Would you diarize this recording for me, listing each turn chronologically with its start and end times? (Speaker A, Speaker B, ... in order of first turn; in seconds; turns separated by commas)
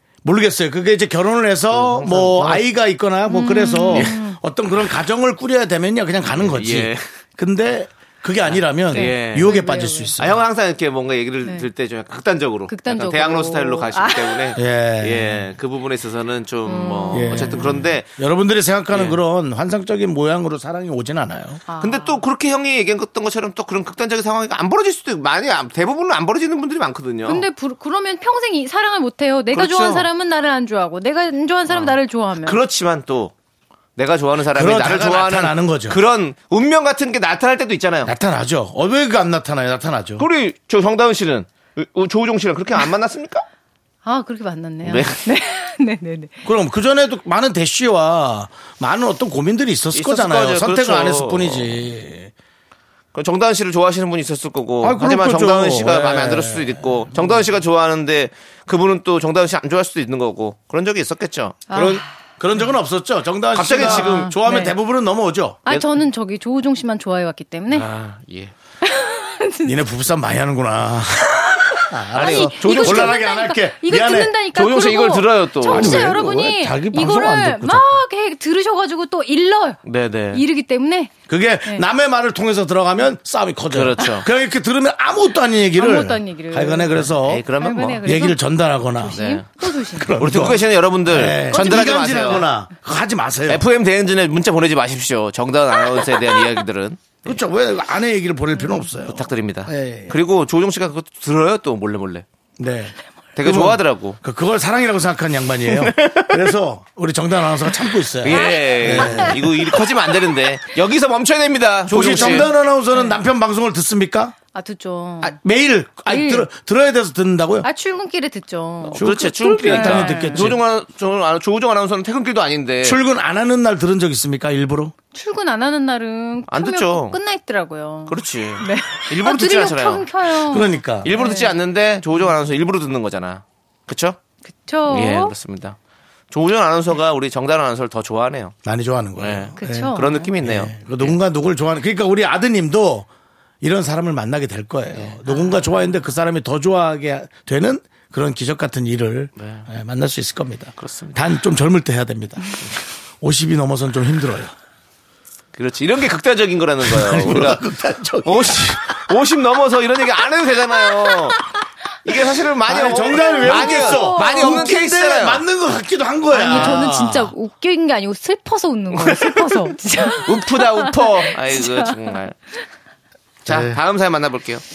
Speaker A: 0.2-10.4, Speaker B: 1.7-2.6, Speaker C: 3.3-4.4, Speaker B: 3.9-4.2, Speaker B: 6.3-7.1, Speaker B: 8.4-9.5, Speaker C: 8.9-10.1, Speaker B: 10.2-18.1, Speaker C: 12.7-14.6, Speaker A: 14.5-15.4, Speaker C: 16.6-18.0, Speaker A: 17.1-21.6, Speaker B: 18.9-19.2, Speaker C: 21.7-22.2, Speaker B: 21.8-27.4, Speaker C: 27.2-32.6, Speaker B: 29.5-30.1, Speaker B: 31.7-33.3, Speaker B: 34.0-38.1, Speaker A: 34.5-36.0, Speaker A: 38.0-40.2, Speaker B: 40.2-43.4, Speaker C: 44.0-46.4, Speaker B: 44.8-45.2, Speaker A: 46.4-52.3, Speaker B: 49.9-51.8, Speaker B: 53.1-61.9, Speaker A: 54.8-57.4, Speaker C: 61.7-62.7, Speaker A: 61.7-65.6, Speaker B: 63.5-64.3, Speaker C: 63.7-64.8, Speaker C: 65.6-67.9, Speaker B: 67.7-68.5, Speaker C: 68.8-69.8, Speaker A: 69.6-74.3, Speaker B: 72.1-73.2, Speaker C: 72.1-79.8, Speaker B: 74.5-76.2, Speaker A: 75.7-78.0, Speaker B: 79.8-80.4, Speaker C: 80.3-81.1, Speaker A: 81.3-87.5, Speaker B: 83.7-84.3, Speaker C: 85.7-90.5, Speaker B: 87.1-88.0, Speaker A: 88.0-89.2, Speaker B: 89.1-89.5, Speaker A: 89.9-93.6, Speaker B: 90.1-92.5, Speaker C: 91.5-92.5, Speaker B: 93.5-97.4, Speaker A: 97.2-100.2, Speaker C: 98.5-98.9, Speaker B: 99.0-102.2, Speaker A: 102.6-109.6, Speaker B: 103.3-104.2, Speaker B: 105.7-106.4, Speaker B: 108.2-112.5, Speaker C: 108.3-109.4, Speaker A: 111.9-114.4, Speaker C: 112.9-113.2, Speaker C: 114.5-115.4, Speaker A: 115.2-117.7, Speaker C: 116.0-116.5, Speaker C: 117.6-120.5, Speaker B: 118.8-123.0, Speaker A: 119.0-120.6, Speaker A: 122.8-124.9, Speaker C: 125.1-131.6, Speaker B: 126.5-127.2, Speaker B: 128.1-130.1, Speaker A: 130.4-131.1, Speaker B: 131.0-134.2, Speaker C: 134.4-135.3, Speaker B: 134.9-135.8, Speaker B: 136.3-138.5, Speaker A: 138.6-143.1, Speaker B: 139.2-141.2, Speaker C: 139.6-140.3, Speaker A: 143.6-152.7, Speaker C: 145.2-145.9, Speaker B: 149.4-149.7, Speaker B: 150.8-151.2, Speaker A: 153.2-154.5, Speaker B: 155.6-157.6, Speaker A: 156.8-159.0, Speaker B: 158.2-161.4, Speaker B: 162.0-165.4, Speaker A: 162.7-167.3, Speaker C: 163.1-164.8, Speaker C: 166.3-171.9, Speaker B: 166.5-166.8, Speaker B: 168.9-169.5, Speaker B: 170.2-172.4, Speaker A: 173.4-173.8, Speaker B: 173.4-174.6